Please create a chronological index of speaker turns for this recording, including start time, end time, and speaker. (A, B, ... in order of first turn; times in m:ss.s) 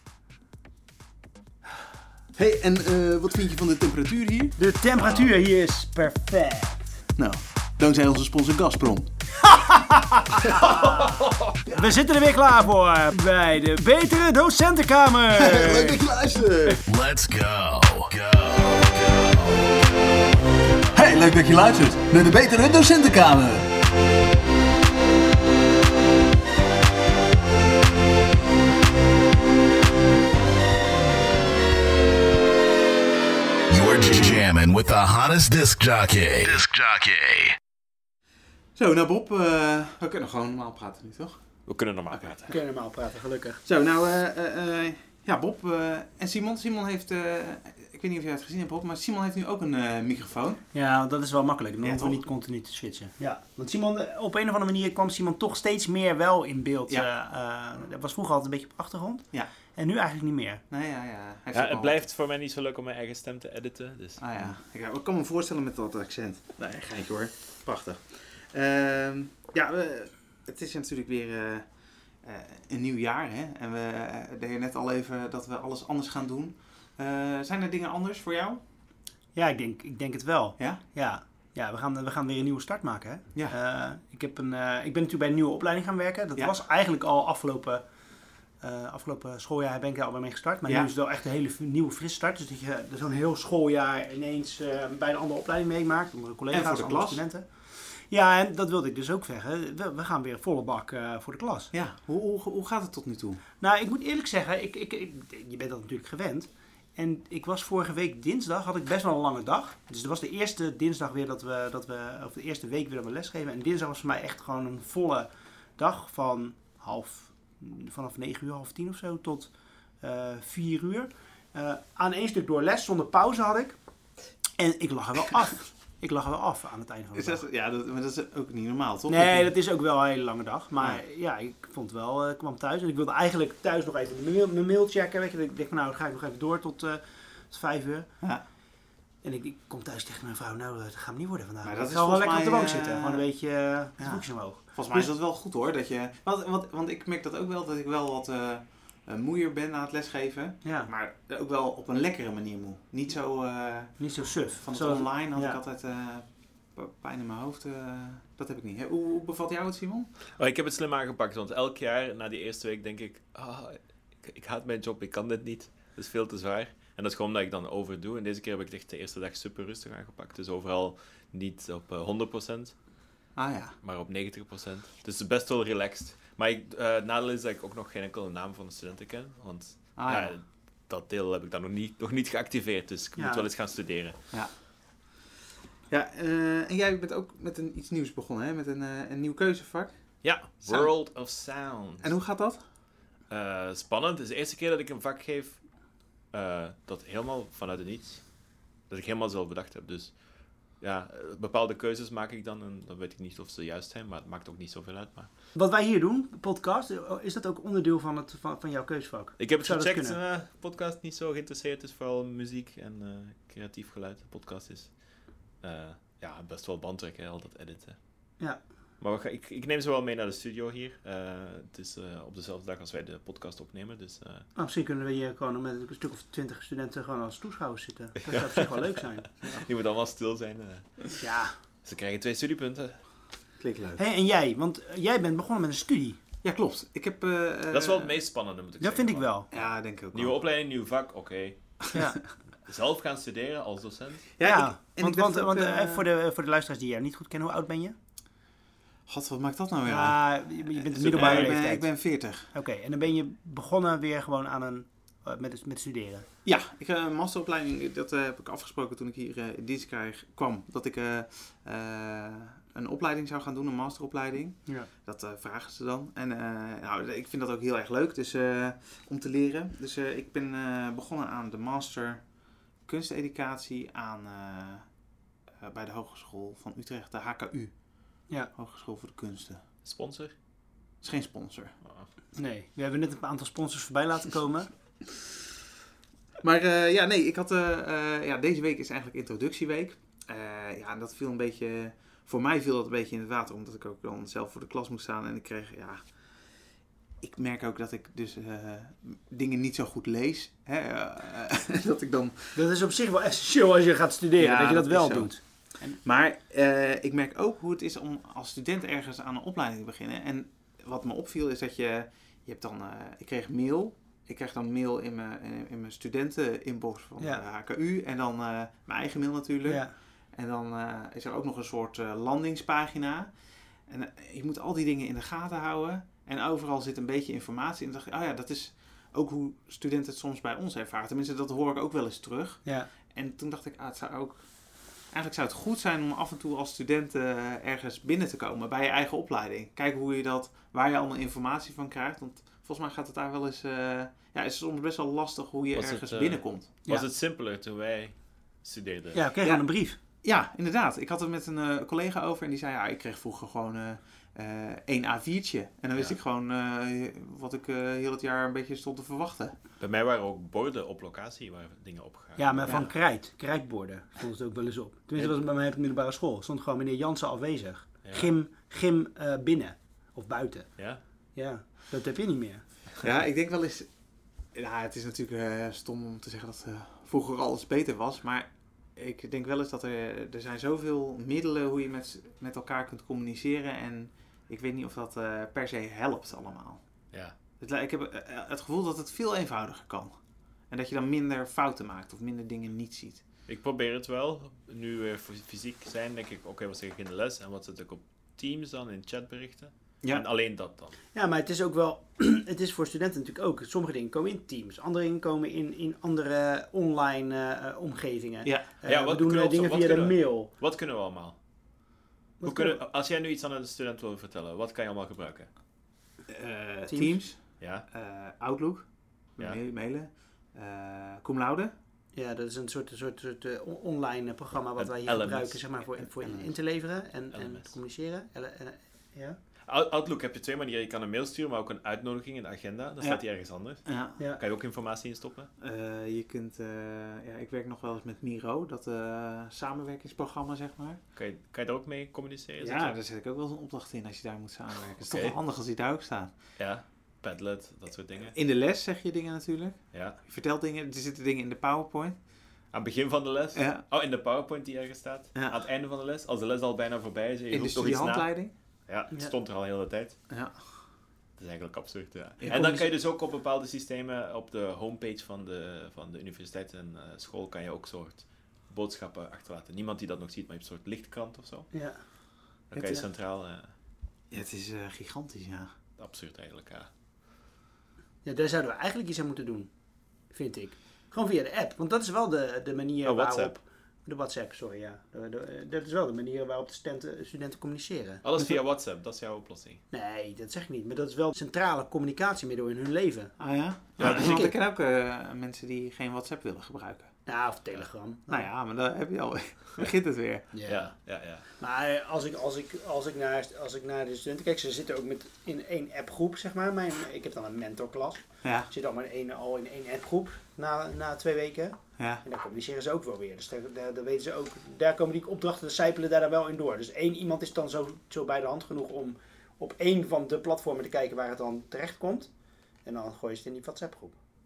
0:02.4-0:04.6 A
0:04.6-0:07.0 B
0:07.2-0:09.1 A
0:09.5-0:16.0 B
0:10.4-0:10.8 A
0:15.4-0:16.8 A
0:16.9-0:19.7 C
0:21.0-0:23.7 A
0:33.7-0:37.6 C
0:38.8-0:42.6 A
0:41.7-0:42.6 D
0:42.5-0:43.6 B
0:43.6-0:50.6 A
0:50.7-1:00.6 B
0:51.8-0:52.2 A
1:00.7-1:02.1 A
1:01.5-1:04.6 D
1:04.2-1:18.6 A
1:19.3-1:27.9 B
1:28.6-1:41.7 B
1:36.5-1:37.2 A
1:41.7-1:43.4 A
1:43.6-2:03.8 B
2:04.6-2:07.4 B
2:07.2-2:09.5 A
2:09.1-2:18.1 B
2:19.2-2:25.1 B
2:21.6-2:23.3 A
2:24.0-2:40.1 A
2:30.6-2:30.9 B
2:34.0-2:35.6 B
2:40.4-2:52.9 D
2:53.4-2:53.8 A
2:53.8-3:04.3 D
3:00.0-3:00.4 A
3:03.2-3:03.5 B
3:05.9-3:11.0 A
3:10.2-3:12.2 D
3:12.0-3:12.6 A
3:13.3-3:25.3 D
3:25.6-3:30.2 B
3:29.4-3:38.0 D
3:39.0-3:44.5 D
3:44.6-3:49.4 B
3:48.2-3:51.1 D
3:51.2-3:51.6 B
3:51.8-3:53.1 D
3:53.6-3:54.0 A
3:54.0-3:56.2 B
3:56.4-3:58.2 A
3:57.7-4:01.9 D
3:58.8-3:59.5 B
3:59.5-4:00.4 A
4:01.9-4:02.2 B
4:02.6-4:04.3 D
4:04.4-4:06.0 A
4:04.4-4:08.0 B
4:09.1-4:12.5 A
4:09.9-4:16.3 B
4:16.4-4:35.0 A
4:35.6-4:39.6 A
4:39.8-4:40.4 D
4:41.0-4:41.8 A
4:42.4-4:44.7 B
4:46.4-4:56.6 A
4:57.2-5:02.6 A
5:02.6-5:06.0 B
5:04.4-5:46.7 A
5:19.6-5:19.9 B
5:45.8-5:49.2 D
5:49.1-5:50.0 B
5:49.4-5:59.6 A
5:59.8-6:02.9 D
6:02.4-6:12.6 B
6:02.6-6:02.9 A
6:08.0-6:08.3 D
6:13.0-6:26.8 A
6:27.6-6:33.2 A
6:33.5-6:41.0 D
6:41.1-6:50.5 B
6:48.4-6:48.7 A
6:48.8-6:51.4 D
6:52.4-6:52.8 B
6:52.4-6:55.5 D
6:56.3-7:01.7 A
6:56.9-6:57.2 B
6:57.6-6:57.8 D
7:02.2-7:09.4 B
7:04.8-7:06.0 D
7:06.2-7:06.5 A
7:07.3-7:07.7 D
7:09.7-7:15.5 D
7:13.8-7:14.2 A
7:15.6-7:21.0 A
7:21.2-7:23.0 D
7:22.6-7:26.4 A
7:25.1-7:25.4 D
7:26.6-7:28.4 D
7:28.2-7:32.2 A
7:29.9-7:30.2 D
7:32.7-7:40.2 D
7:33.6-7:33.8 A
7:35.4-7:35.6 A
7:37.5-7:38.6 A
7:40.3-7:40.8 A
7:41.4-7:51.7 D
7:42.4-7:42.9 A
7:51.7-7:53.1 B
7:52.7-7:53.7 D
7:54.3-7:55.7 A
7:56.0-7:56.9 D
7:58.2-8:08.6 B
8:03.0-8:03.5 D
8:08.2-8:09.8 D
8:09.9-8:14.6 B
8:13.4-8:17.2 A
8:14.0-8:14.4 D
8:17.3-8:18.5 B
8:18.3-8:20.5 A
8:20.5-8:21.0 B
8:20.6-8:21.5 D
8:21.5-8:42.3 B
8:28.4-8:28.7 A
8:32.0-8:32.2 A
8:42.8-8:44.2 B